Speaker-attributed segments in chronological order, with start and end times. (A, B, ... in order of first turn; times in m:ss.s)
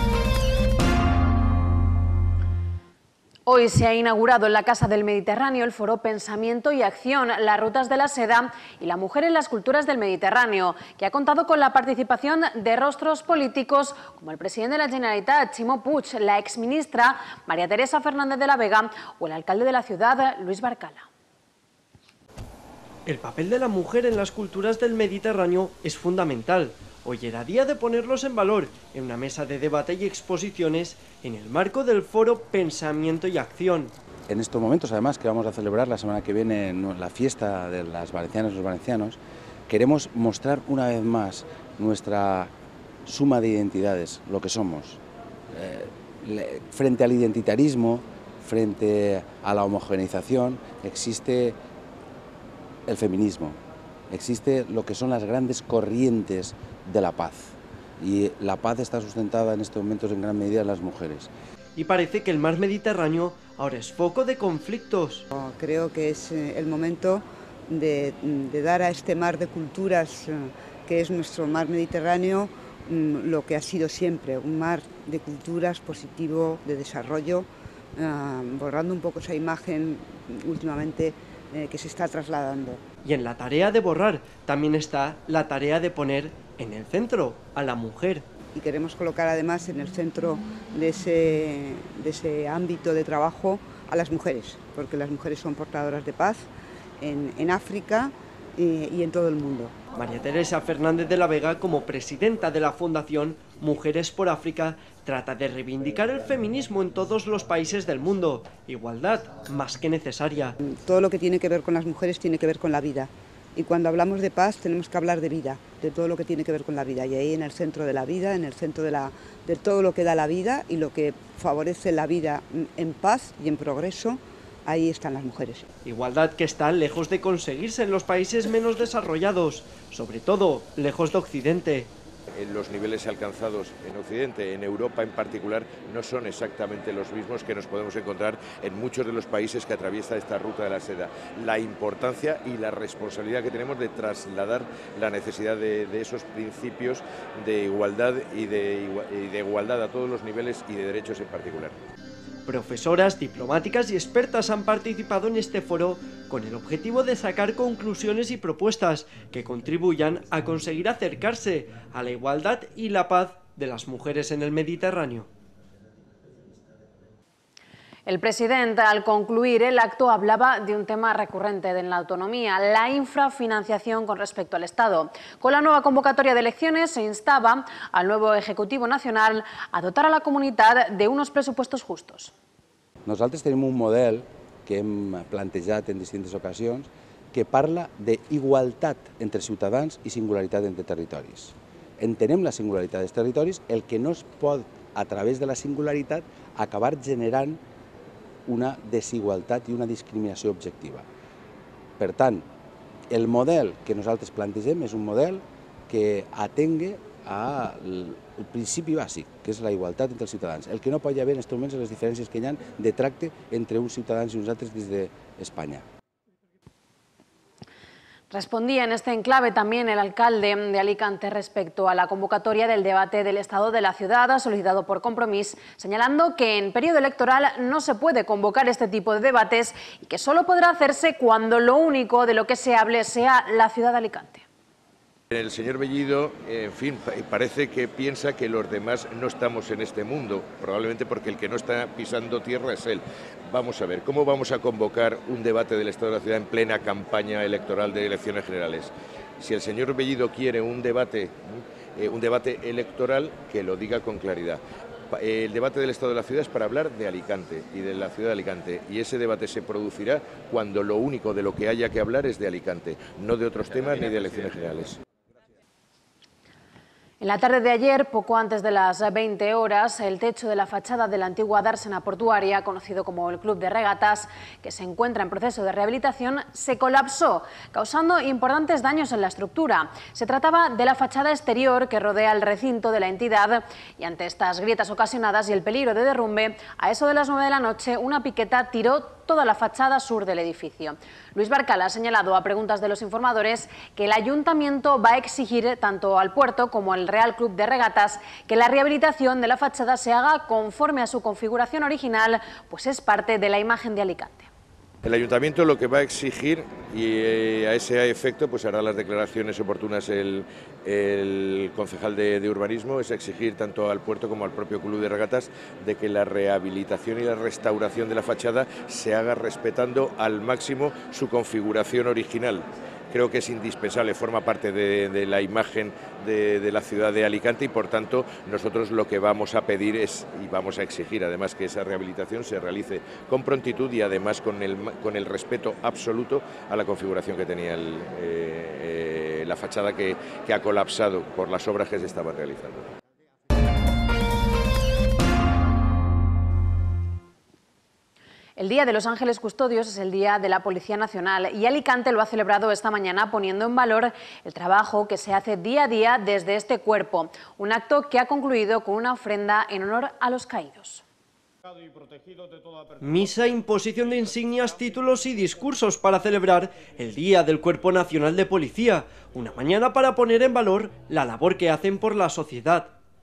0:03.5-0:21.1 A
0:23.0-0:34.0 B
0:34.3-0:42.5 C
0:43.0-0:45.0 C
0:45.5-0:51.6 C
0:52.9-1:01.3 C
1:01.8-1:05.3 B
1:05.3-1:22.8 D
1:23.0-1:28.3 B
1:28.5-1:36.5 D
1:37.0-1:39.8 D
1:40.0-1:50.6 B
1:50.6-2:05.7 D
2:05.8-2:11.9 B
2:12.3-2:31.8 E
2:32.5-2:45.3 B
2:48.1-3:02.3 A
3:03.1-3:17.6 C
3:18.5-3:21.1 C
3:22.0-3:22.5 C
3:23.1-3:35.8 C
3:38.3-3:54.4 A
3:55.3-4:25.0 E
4:27.2-5:04.5 A
5:05.0-5:42.9 E
5:48.6-6:01.0 A
6:03.0-6:13.0 B